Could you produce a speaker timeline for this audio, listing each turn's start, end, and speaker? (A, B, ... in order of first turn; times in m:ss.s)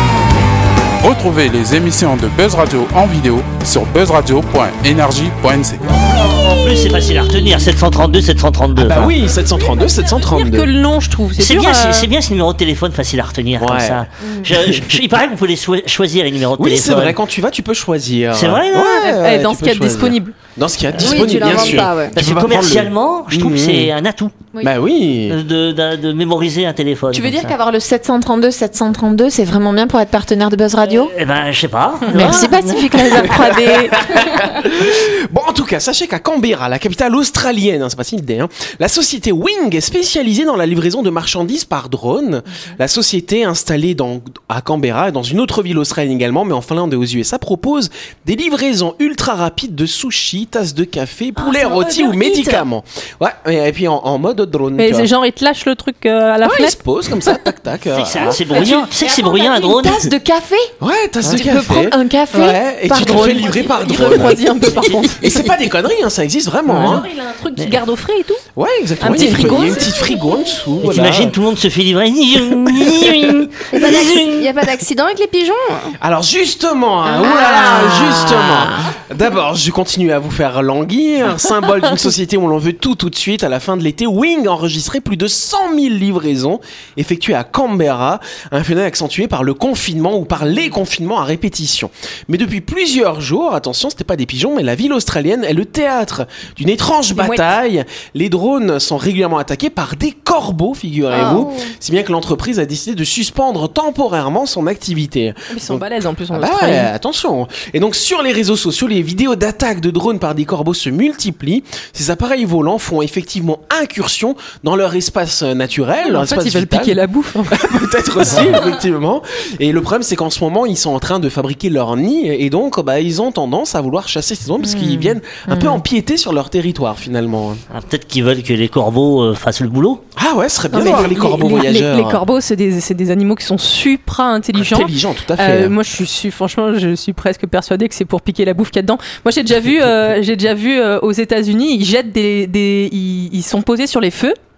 0:01.0-0:05.8 A
0:05.9-0:09.1 B
0:08.8-0:10.7 C
0:10.0-0:12.1 D
0:11.4-0:17.2 B
0:13.6-0:15.0 C
0:16.6-0:23.9 C
0:18.3-0:19.2 B
0:19.2-0:20.3 D
0:20.9-0:24.4 B
0:21.0-0:22.1 E
0:24.6-0:25.4 C
0:25.3-0:27.6 B
0:27.1-0:31.1 F
0:30.8-0:33.3 B
0:32.0-0:34.0 D
0:32.1-0:33.7 F
0:33.9-0:55.1 C
0:51.4-0:52.6 D
0:54.8-0:57.4 D
0:56.4-0:58.8 C
0:57.9-1:00.1 B
0:58.4-1:00.7 F
0:58.5-0:58.9 D
1:00.8-1:07.0 C
1:01.2-1:03.7 F
1:02.9-1:05.5 D
1:06.7-1:08.4 D
1:06.7-1:07.0 B
1:08.6-1:11.4 C
1:09.0-1:10.0 D
1:10.8-1:14.5 B
1:12.6-1:13.5 C
1:13.7-1:15.9 E
1:16.0-1:57.0 C
1:17.1-1:18.8 F
1:37.1-1:37.5 D
1:41.1-1:41.6 E
1:45.5-1:46.9 D
1:56.0-1:57.6 D
1:57.5-2:07.6 C
2:04.6-2:05.8 F
2:07.7-2:10.0 B
2:10.2-2:12.2 C
2:10.7-2:24.4 D
2:14.5-2:15.8 C